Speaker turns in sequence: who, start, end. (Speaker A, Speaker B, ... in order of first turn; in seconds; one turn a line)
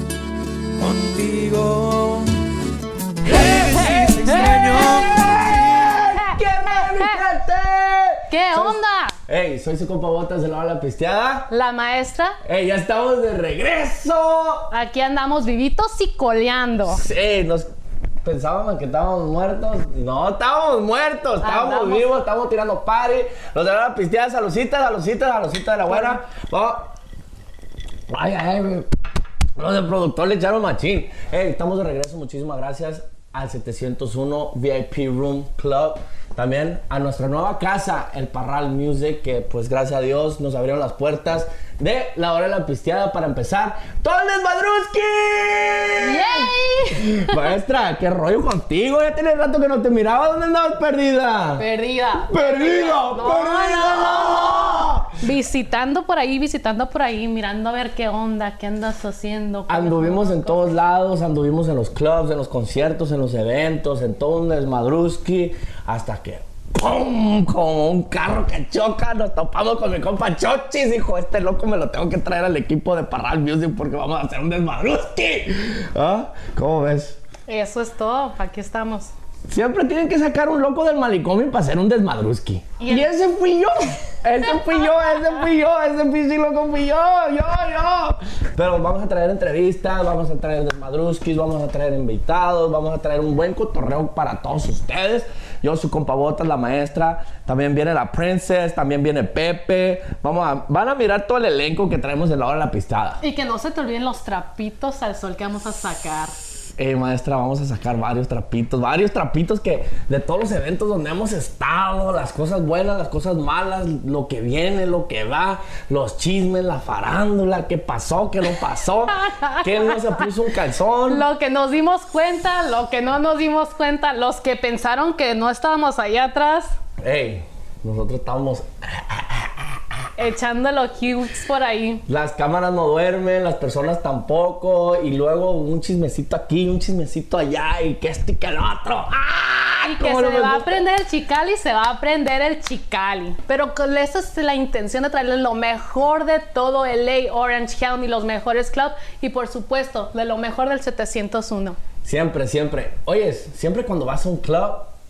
Speaker A: 0.8-2.3
Speaker A: 3.2-6.0
Speaker B: 3.7-11.5
Speaker C: 6.1-7.2
Speaker C: 8.3-9.2
Speaker C: 11.5-12.4
Speaker B: 12.4-14.7
Speaker C: 14.7-17.0
Speaker B: 16.9-17.7
Speaker B: 18.2-26.9
Speaker C: 21.4-22.1
Speaker C: 25.9-26.2
Speaker B: 28.1-28.9
Speaker B: 29.6-51.6
Speaker C: 46.0-47.5
Speaker C: 51.6-60.7
Speaker B: 52.3-55.1
Speaker B: 59.7-77.2
Speaker C: 77.5-79.1
Speaker B: 79.5-103.2
Speaker C: 82.8-83.1
Speaker C: 103.2-106.3
Speaker B: 106.8-121.2
Speaker C: 119.1-120.3
Speaker C: 121.1-126.8
Speaker B: 127.0-130.0
Speaker C: 130.2-132.0
Speaker B: 132.1-140.8
Speaker C: 139.8-151.8
Speaker B: 152.0-154.9